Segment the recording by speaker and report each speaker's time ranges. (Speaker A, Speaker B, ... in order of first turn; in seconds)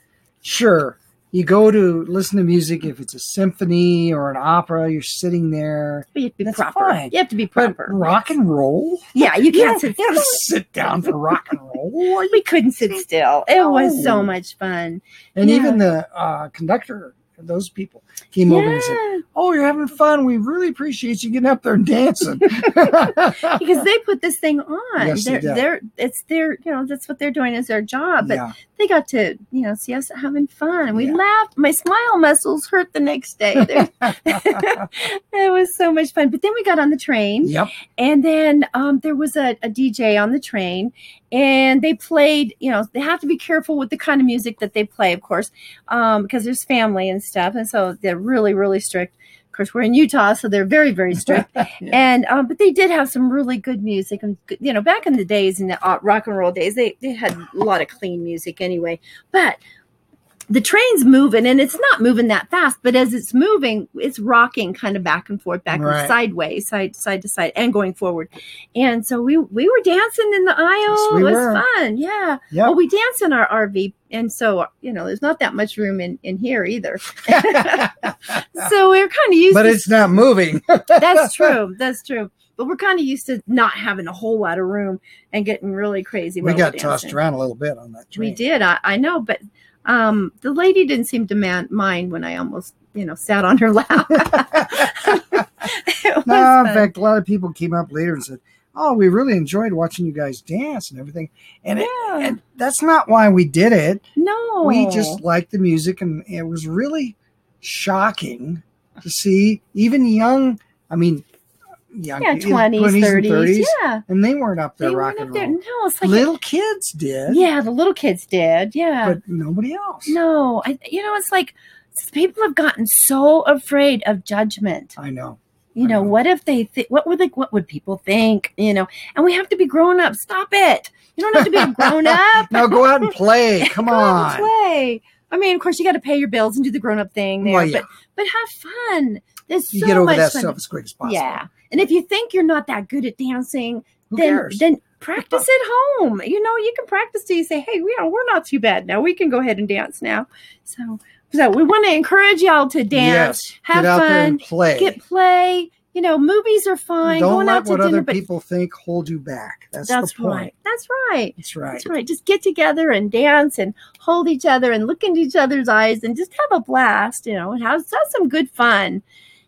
Speaker A: 0.4-13.0, 13.5-14.3, 15.3-23.7, 25.0-25.6, 28.2-28.5, 33.6-34.8, 37.4-37.7, 65.7-66.1, 70.9-71.6, 77.3-78.4, 79.5-81.6, 86.4-88.4, 94.5-95.4, 96.2-104.0, 104.6-111.2, 111.9-117.5, 119.0-120.2, 125.0-126.2, 131.3-134.5, 137.4-137.8, 139.7-141.4, 144.1-144.6, 145.2-145.4, 152.9-155.0, 157.0-160.5, 161.4-161.9
Speaker B: 6.1-8.1, 9.1-11.4, 12.3-15.8, 18.5-19.2, 22.7-59.6, 60.5-80.0, 81.0-87.2, 88.2-96.9, 101.8-102.4, 104.2-105.2, 112.2-114.0, 114.8-116.3, 117.3-119.2, 120.1-124.9, 125.7-158.2, 159.8-169.0